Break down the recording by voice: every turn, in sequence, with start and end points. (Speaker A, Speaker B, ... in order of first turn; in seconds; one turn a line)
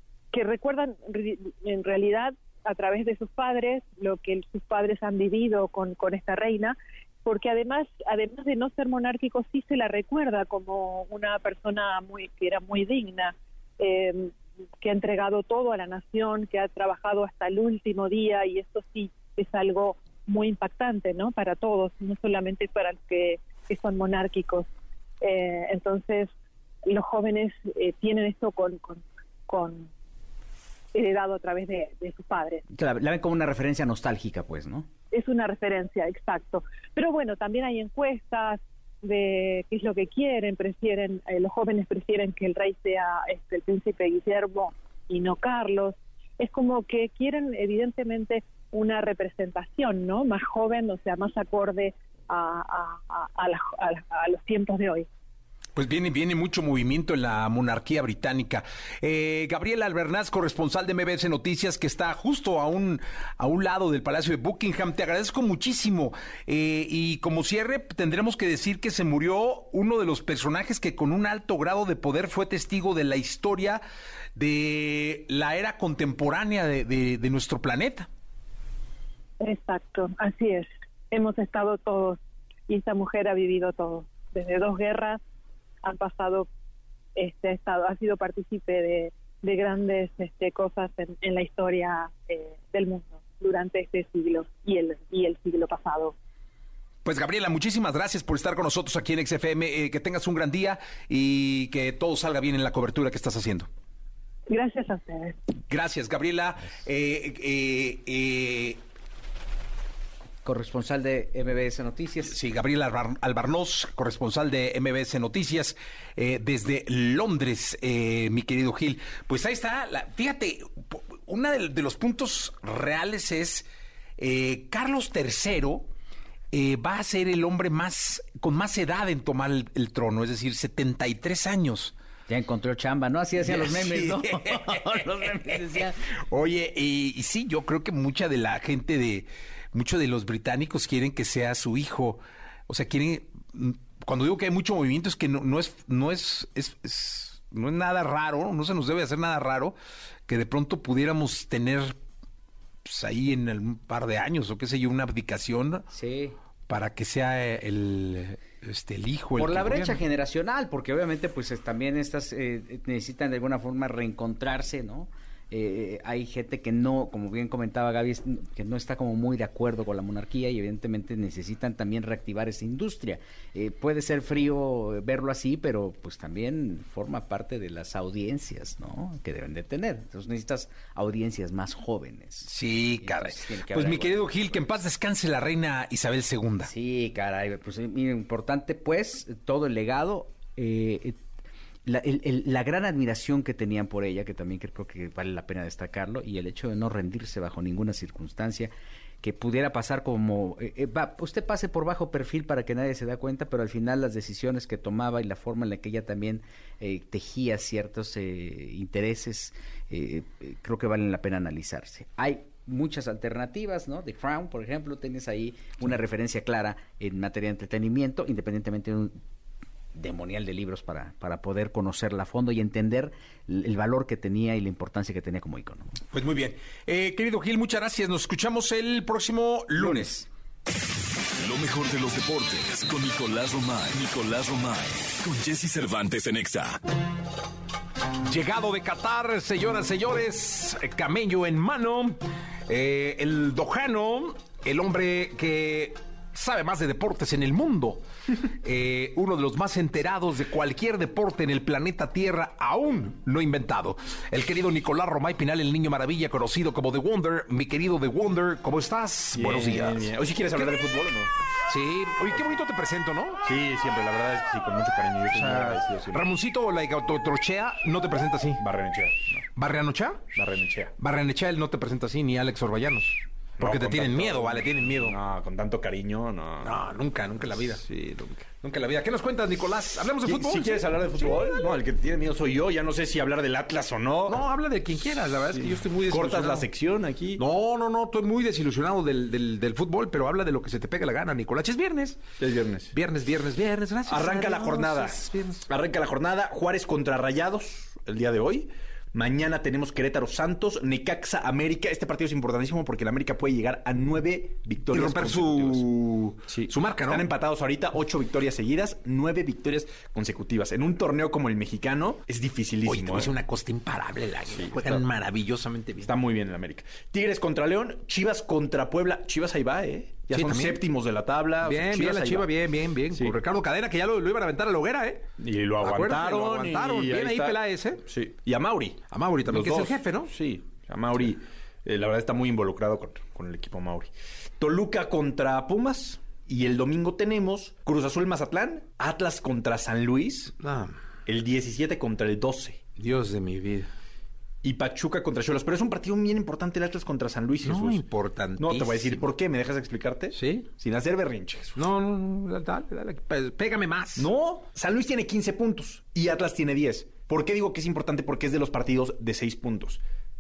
Speaker A: 0.3-24.7
Speaker A: 25.2-26.3
Speaker A: 26.9-29.9
Speaker A: 30.9-32.6
Speaker B: 32.7-34.9
Speaker A: 35.1-55.1
Speaker C: 55.7-73.8
Speaker C: 74.3-78.1
Speaker A: 79.4-85.2
Speaker A: 85.8-86.5
Speaker A: 87.1-96.1
Speaker C: 97.0-103.7
Speaker A: 104.5-105.4
Speaker C: 105.7-108.8
Speaker B: 110.4-112.3
Speaker C: 112.2-123.6
Speaker C: 124.2-125.9
Speaker C: 126.5-131.9
Speaker B: 132.3-136.0
Speaker C: 133.4-135.6
Speaker C: 136.3-149.8
Speaker C: 150.3-151.9
Speaker C: 152.8-155.8
Speaker B: 155.9-156.3
Speaker C: 156.7-160.0
Speaker B: 159.4-184.6
Speaker C: 182.5-186.7
Speaker B: 186.6-191.2
Speaker B: 191.8-198.7
Speaker B: 199.2-219.2
Speaker B: 219.9-225.9
Speaker C: 226.1-230.3
Speaker D: 231.4-236.8
Speaker C: 238.2-248.0
Speaker C: 248.6-260.8
Speaker E: 259.3-261.3
Speaker C: 261.7-263.4
Speaker E: 263.4-266.2
Speaker C: 265.3-268.6
Speaker E: 268.6-269.4
Speaker C: 269.6-270.3
Speaker E: 270.3-270.9
Speaker C: 271.0-275.2
Speaker E: 273.6-276.8
Speaker C: 276.6-277.8
Speaker E: 277.8-278.5
Speaker C: 278.6-281.7
Speaker E: 280.2-284.4
Speaker C: 284.2-286.7
Speaker E: 285.5-287.4
Speaker C: 287.4-292.2
Speaker E: 292.4-292.9
Speaker C: 292.9-295.7
Speaker E: 294.1-313.3
Speaker C: 304.9-307.2
Speaker C: 312.8-316.1
Speaker E: 314.5-315.0
Speaker E: 316.0-322.5
Speaker C: 320.3-320.8
Speaker C: 321.6-325.3
Speaker E: 323.1-323.4
Speaker E: 325.4-340.5
Speaker C: 325.8-328.0
Speaker C: 329.1-330.3
Speaker C: 340.6-340.9
Speaker E: 341.2-342.8
Speaker C: 342.9-343.9
Speaker E: 344.6-348.0
Speaker C: 347.6-349.2
Speaker E: 348.6-351.8
Speaker C: 350.3-350.7
Speaker C: 351.8-354.3
Speaker E: 354.2-360.0